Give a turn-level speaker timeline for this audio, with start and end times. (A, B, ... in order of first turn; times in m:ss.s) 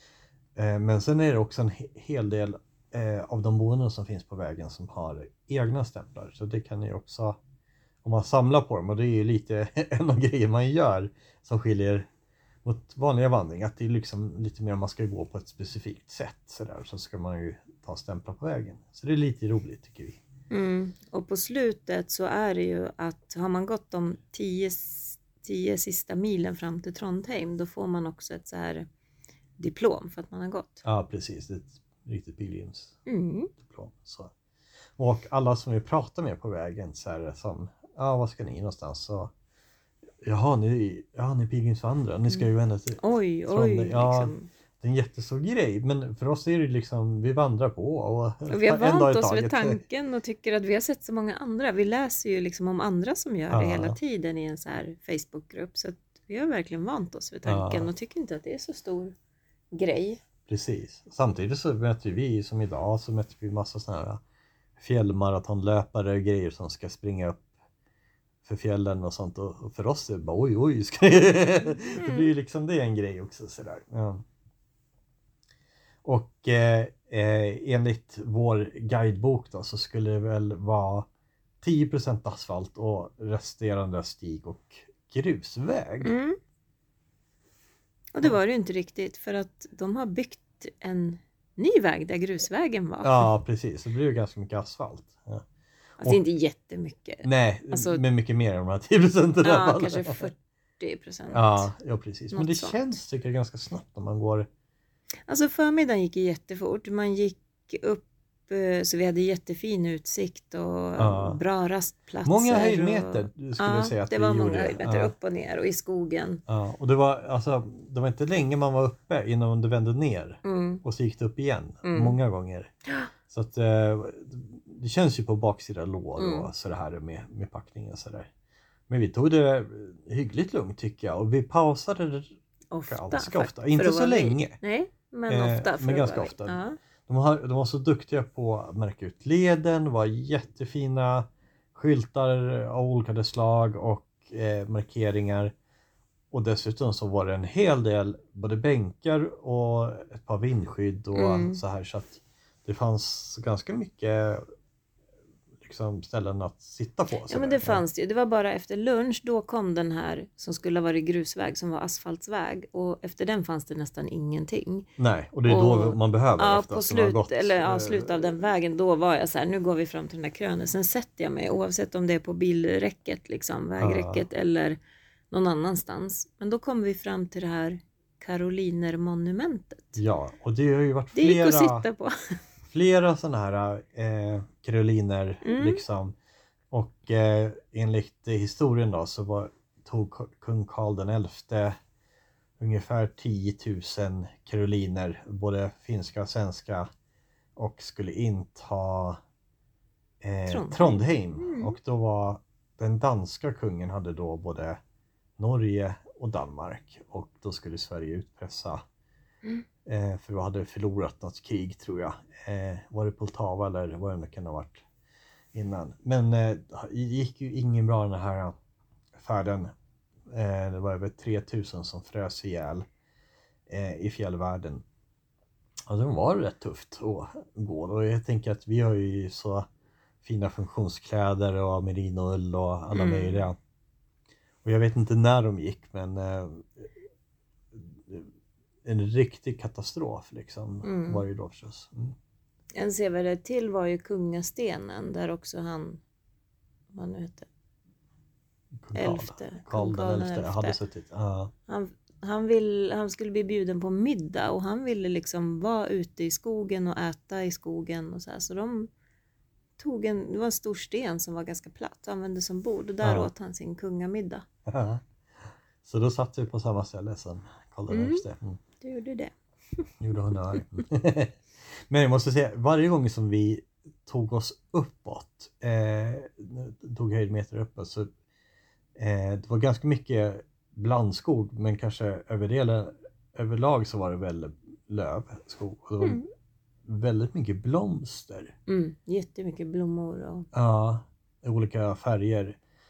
0:00.6-0:07.4 A
0:08.0-0:12.1 A
0:12.6-0:20.2 A
0:20.5-0:28.9 B
0:29.6-0:30.8 B
0:30.8-0:33.0 A
0:33.1-0:33.5 B
0:33.6-0:34.3 A
0:35.0-0:39.3 A
0:40.2-0:49.8 A
0:42.3-0:44.5 B
0:48.5-0:59.2 B
0:53.5-0:54.0 A
0:57.4-0:57.9 A
0:59.7-1:00.2 B
1:00.5-1:04.2 A
1:04.8-1:07.5 A
1:08.4-1:14.2 A
1:12.0-1:12.3 B
1:16.0-1:21.1 A
1:21.6-1:26.1 A
1:26.0-1:26.4 B
1:28.1-1:33.3 B
1:33.0-1:35.4 A
1:36.0-1:38.0 B
1:37.2-1:40.2 A
1:39.4-1:41.7 B
1:41.3-1:44.5 A
1:42.3-1:42.8 B
1:45.3-1:56.4 B
1:51.0-1:51.4 A
1:52.2-1:55.1 A
1:56.5-2:02.7 A
2:00.4-2:00.8 B
2:01.8-2:02.2 B
2:03.3-2:08.3 A
2:06.2-2:06.5 B
2:08.9-2:12.3 A
2:12.7-2:16.8 B
2:12.9-2:14.6 A
2:15.3-2:25.5 A
2:26.3-2:34.4 A
2:31.2-2:31.6 B
2:35.6-2:37.8 A
2:37.3-2:44.9 B
2:45.0-2:48.4 A
2:45.5-2:54.8 B
2:53.8-2:54.2 A
2:55.3-3:00.0 B
3:00.0-3:01.9 A
3:01.2-3:02.1 B
3:02.7-3:06.2 A
3:05.4-3:05.8 B
3:06.7-3:11.8 A
3:12.6-3:16.9 A
3:17.6-3:19.2 A
3:20.2-3:24.8 A
3:20.5-3:21.8 B
3:25.4-3:28.8 A
3:29.9-3:34.8 A
3:35.5-3:38.6 A
3:39.2-3:39.7 A
3:40.3-3:42.9 A
3:43.7-3:44.8 A
3:45.9-3:49.7 A
3:50.2-3:53.6 A
3:52.9-3:53.5 B
3:54.6-3:56.9 A
3:57.7-3:58.3 A
3:58.8-4:02.2 A
4:00.8-4:01.2 B
4:02.8-4:06.0 B
4:06.9-4:07.5 B
4:08.8-4:11.5 A
4:08.9-4:10.8 B
4:11.7-4:18.9 B
4:19.8-4:24.4 B
4:23.0-4:23.3 A
4:24.7-4:25.0 A
4:25.8-4:28.6 A
4:27.9-4:28.2 B
4:28.8-4:29.8 B
4:30.0-4:38.1 A
4:39.0-4:46.2 A
4:46.0-4:46.3 B
4:46.9-4:48.6 A
4:48.7-4:50.5 B
4:50.5-4:52.6 A